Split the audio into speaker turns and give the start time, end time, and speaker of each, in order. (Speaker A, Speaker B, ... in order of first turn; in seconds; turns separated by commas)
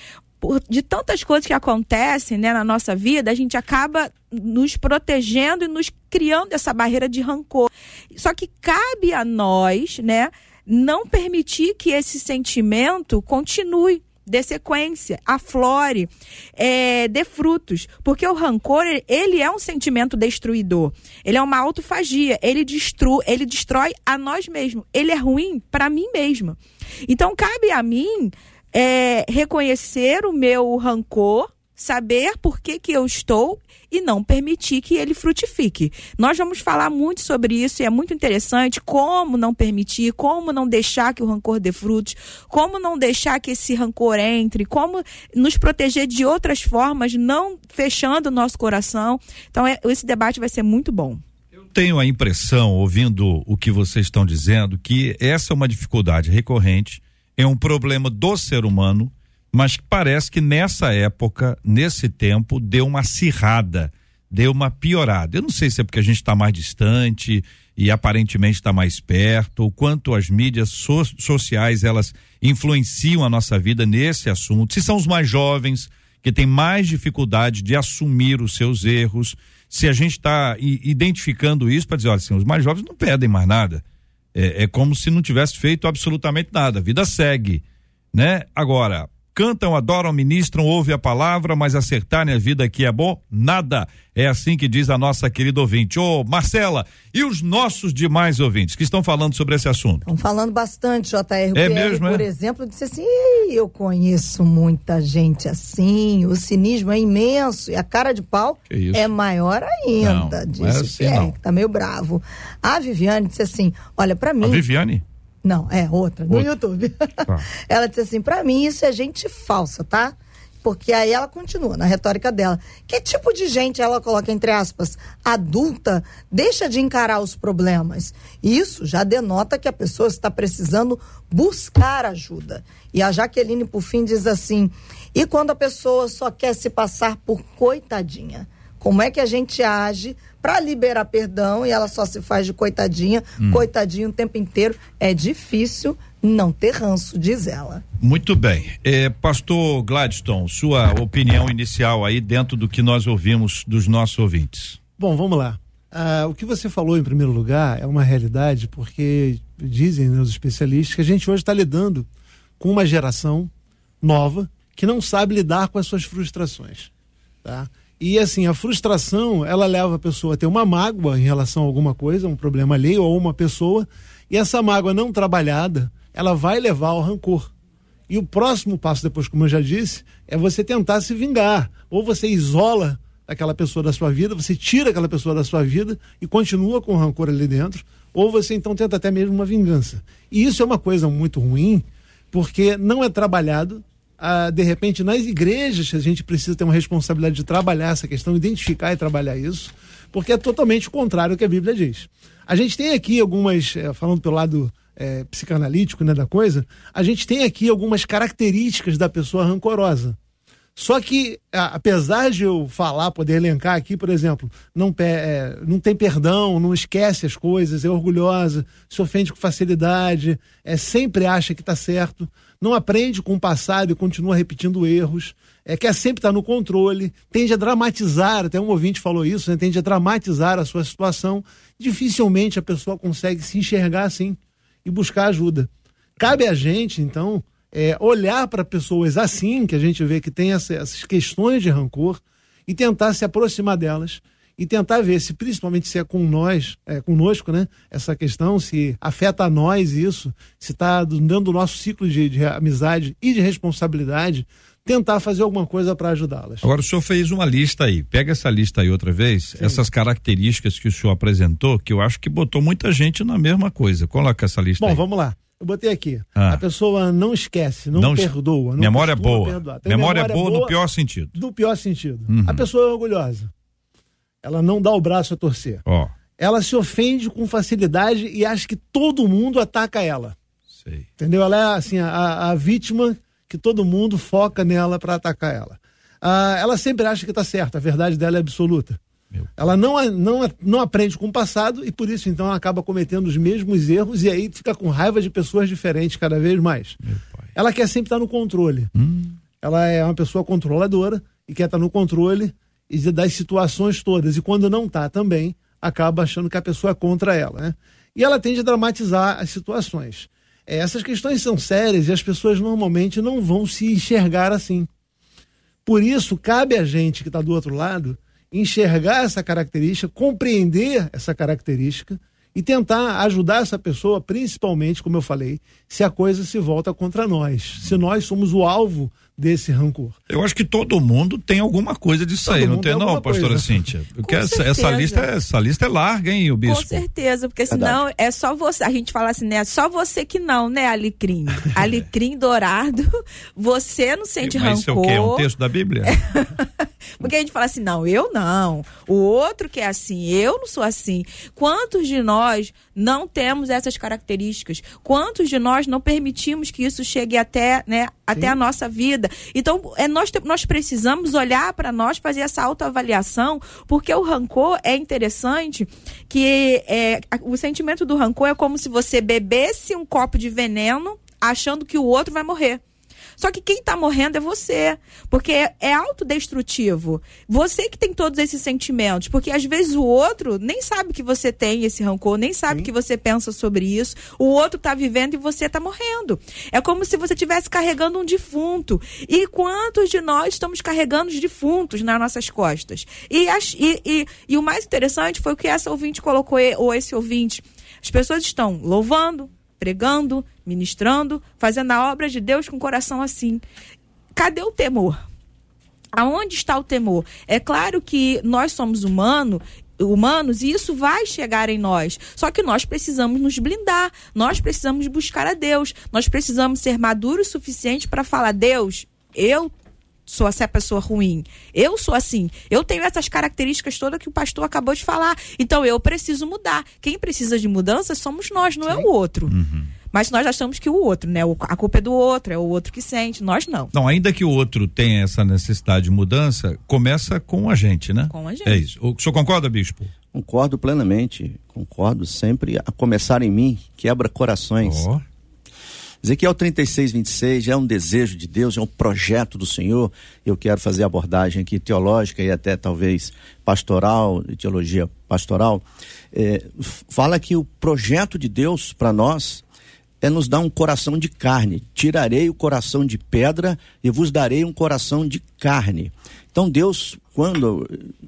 Speaker A: 0.4-51.2, Speaker B: 51.7-83.8, Speaker B: 84.3-87.6, Speaker B: 88.1-100.0, Speaker C: 100.0-114.6, Speaker B: 101.5-102.2, Speaker B: 108.7-109.1, Speaker B: 110.0-111.3, Speaker B: 114.4-115.0, Speaker C: 115.4-147.8, Speaker B: 143.4-143.7, Speaker B: 148.0-154.8, Speaker D: 155.0-162.1, Speaker D: 162.6-166.9, Speaker D: 167.4-177.5, Speaker D: 178.1-210.2, Speaker D: 210.8-256.7, Speaker B: 256.6-265.0, Speaker D: 259.5-259.8, Speaker D: 264.8-270.7, Speaker B: 266.4-266.6, Speaker B: 267.9-271.4, Speaker D: 271.3-273.5, Speaker B: 272.3-272.6, Speaker D: 274.4-275.8, Speaker B: 275.9-276.1, Speaker D: 276.4-280.4, Speaker D: 281.2-289.0, Speaker D: 289.6-297.0, Speaker D: 297.5-298.9, Speaker B: 299.0-299.3, Speaker D: 299.6-314.9, Speaker D: 315.8-330.1, Speaker B: 330.3-337.0, Speaker D: 332.4-333.8, Speaker A: 334.2-335.3, Speaker A: 336.6-345.4, Speaker E: 337.7-338.0, Speaker B: 344.4-346.2, Speaker A: 346.1-372.8, Speaker A: 373.4-403.6, Speaker A: 404.4-405.2, Speaker A: 406.1-419.7, Speaker A: 420.3-429.5, Speaker B: 429.5-429.9, Speaker A: 430.1-433.9, Speaker B: 433.9-440.1, Speaker A: 438.3-438.9, Speaker E: 440.3-445.0, Speaker B: 444.8-445.2, Speaker E: 446.2-459.6, Speaker E: 460.2-468.1